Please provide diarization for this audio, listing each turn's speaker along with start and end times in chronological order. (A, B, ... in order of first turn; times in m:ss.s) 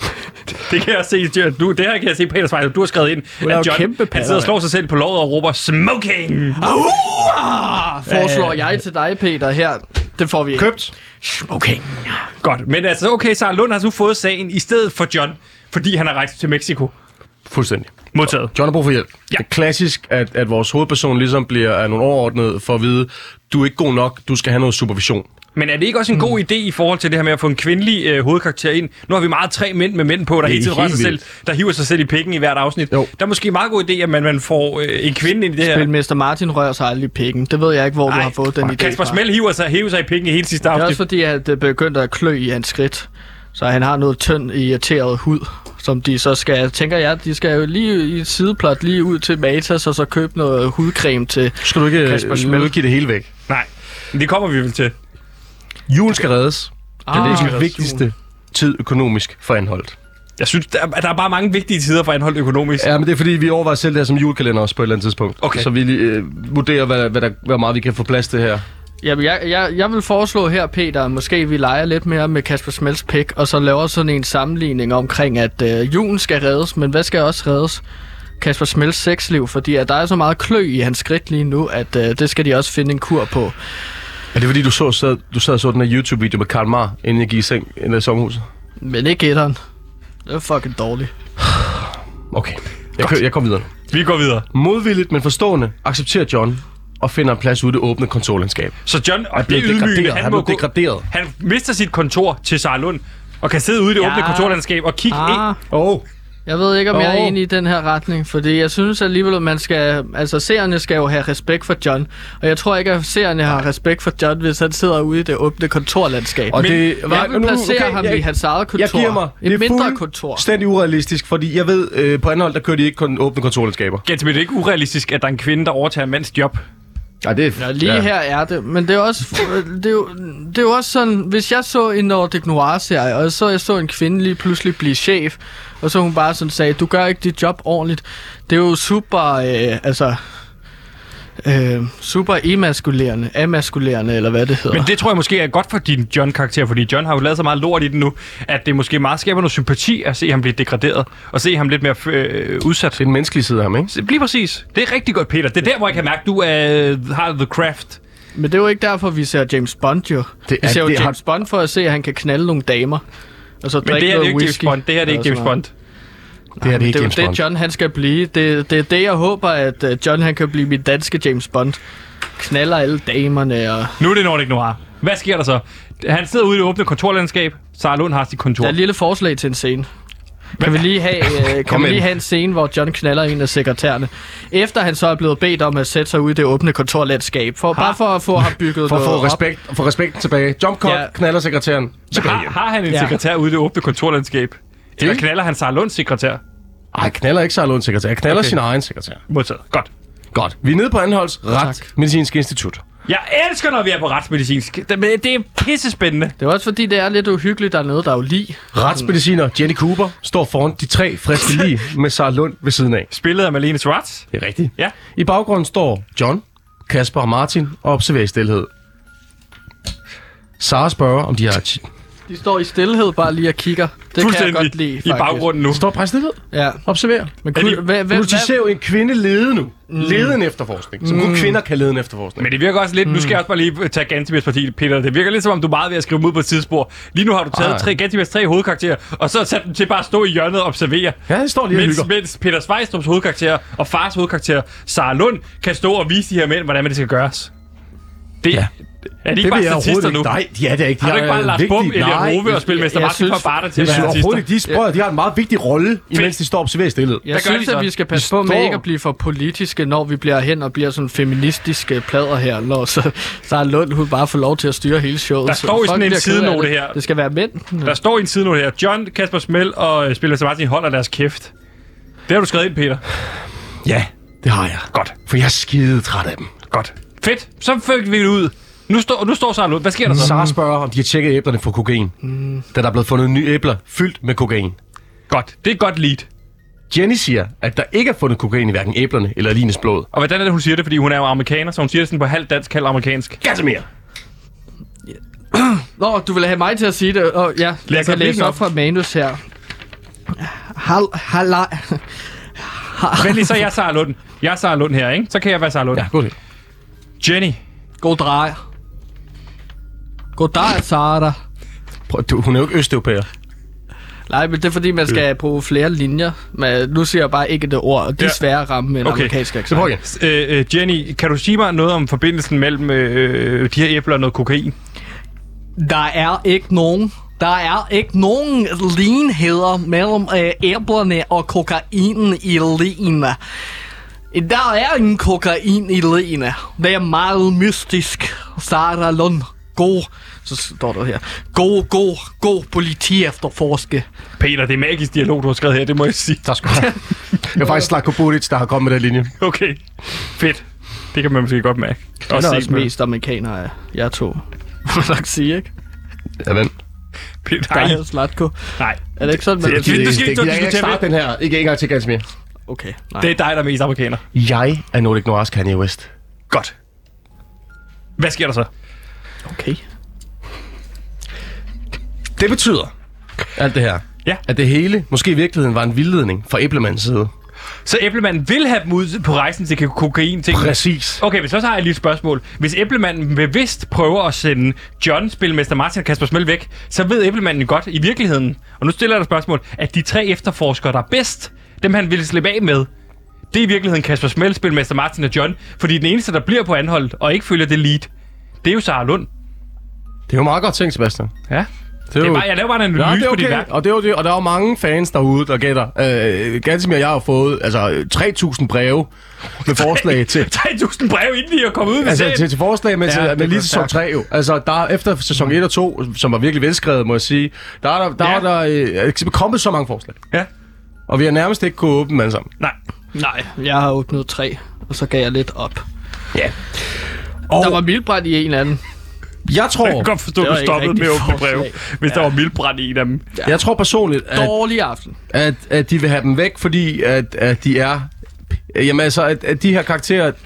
0:00.5-0:06.6 A
0:03.4-0:04.5 B
0:06.6-0:12.3 B
0:08.1-0:08.6 A
0:10.6-0:10.9 C
0:12.4-0:16.9 A
0:17.5-0:25.3 C
0:18.1-0:18.5 A
0:25.6-0:35.9 A
0:30.4-0:31.2 C
0:35.6-0:39.2 B
0:38.1-0:41.0 A
0:40.7-0:52.7 B
0:51.6-0:53.3 C
0:53.5-0:54.9 A
0:55.9-1:00.0 C
0:57.0-0:58.0 B
0:57.1-0:57.7 A
1:00.4-1:02.9 A
1:02.8-1:08.6 C
1:05.4-1:05.7 A
1:09.0-1:17.8 B
1:18.4-1:23.6 B
1:24.3-1:28.4 C
1:28.8-1:29.6 B
1:30.3-1:31.1 B
1:31.5-1:33.7 C
1:33.9-1:34.5 A
1:34.5-1:38.8 C
1:38.9-1:45.4 A
1:39.3-1:41.1 C
1:44.0-1:44.6 B
1:45.1-1:45.6 B
1:45.7-1:46.0 C
1:46.5-2:00.4 B
1:46.9-1:47.4 C
1:56.5-2:04.0 C
1:56.5-1:56.9 A
2:04.1-2:06.6 A
2:07.2-2:08.1 C
2:07.6-2:20.2 B
2:21.4-2:24.9 B
2:24.7-2:33.0 A
2:33.0-2:33.9 C
2:33.9-2:38.0 A
2:38.4-2:43.0 B
2:40.5-2:41.2 C
2:43.6-2:45.6 B
2:43.8-2:45.7 A
2:46.6-2:51.8 B
2:46.6-2:47.4 C
2:52.4-2:54.0 B
2:54.0-2:58.8 A
2:58.6-2:59.9 B
3:00.6-3:09.4 B
3:01.6-3:02.1 C
3:07.7-3:08.0 A
3:08.8-3:12.6 C
3:10.8-3:11.1 B
3:12.1-3:16.4 A
3:12.9-3:13.2 B
3:16.9-3:19.2 C
3:18.3-3:18.6 A
3:19.3-3:19.9 A
3:20.3-3:22.8 C
3:23.1-3:26.3 A
3:26.4-3:29.1 B
3:28.7-3:33.1 C
3:33.1-3:34.9 A
3:34.3-3:38.7 C
3:40.6-3:41.9 C
3:42.3-3:45.5 B
3:44.2-3:45.8 A
3:45.7-3:52.5 C
3:46.5-3:46.8 B
3:47.4-3:48.5 B
3:47.6-3:47.8 A
3:49.9-3:50.4 B
3:51.0-3:51.6 B
3:52.4-4:01.2 A
3:53.0-3:53.4 B
3:57.5-3:57.9 C
4:01.3-4:02.1 C
4:01.7-4:07.5 A
4:08.4-4:08.7 A
4:09.2-4:10.3 A
4:09.4-4:12.5 C
4:11.0-4:14.5 A
4:12.5-4:14.8 B
4:13.8-4:17.3 C
4:17.2-4:28.0 B
4:17.3-4:17.9 A
4:18.1-4:18.8 C
4:25.5-4:27.0 A
4:27.8-4:31.5 A
4:32.3-4:33.0 A
4:33.8-4:36.5 C
4:36.7-4:40.4 A
4:40.1-4:42.2 C
4:42.7-4:44.8 C
4:45.3-4:46.3 A
4:46.9-4:50.1 C
4:50.1-4:53.4 A
4:53.4-4:53.9 C
4:55.5-4:59.4 B
4:57.9-4:58.6 A
5:00.4-5:02.0 B
5:02.6-5:03.6 B
5:03.2-5:06.1 A
5:05.9-5:06.3 C
5:07.2-5:07.6 A
5:08.0-5:08.6 B
5:10.4-5:11.4 B
5:12.1-5:13.3 C
5:14.3-5:20.0 B
5:19.0-5:19.3 A
5:19.7-5:20.0 C
5:20.0-5:24.8 A
5:25.8-5:33.4 B
5:34.3-5:44.0 B
5:44.4-5:46.9 A
5:46.4-5:49.3 C
5:49.4-5:49.8 A
5:50.3-5:52.9 A
5:52.3-5:55.7 B
5:56.4-5:56.7 C
5:57.4-5:58.0 A
5:57.7-6:00.1 B
5:58.8-6:01.1 A
5:59.6-6:02.2 C
6:02.7-6:03.3 B
6:03.2-6:04.2 A
6:04.3-6:06.1 C
6:08.2-6:08.7 A
6:09.5-6:09.8 B
6:12.4-6:12.9 C
6:13.6-6:17.3 C
6:17.9-6:32.9 A
6:20.5-6:21.2 C
6:33.5-6:38.1 A
6:38.6-6:39.3 A
6:40.3-6:41.3 C
6:41.5-6:43.7 A
6:42.1-6:50.5 C
6:49.7-6:52.5 A
6:52.0-7:00.2 C
6:53.1-6:53.9 B
7:01.1-7:02.5 C
7:03.2-7:05.8 B
7:07.5-7:07.8 C
7:07.5-7:08.8 B
7:09.5-7:10.1 C
7:09.8-7:13.3 A
7:10.4-7:12.3 B
7:13.4-7:14.6 C
7:14.3-7:15.2 B
7:15.3-7:18.1 C
7:18.7-7:20.4 C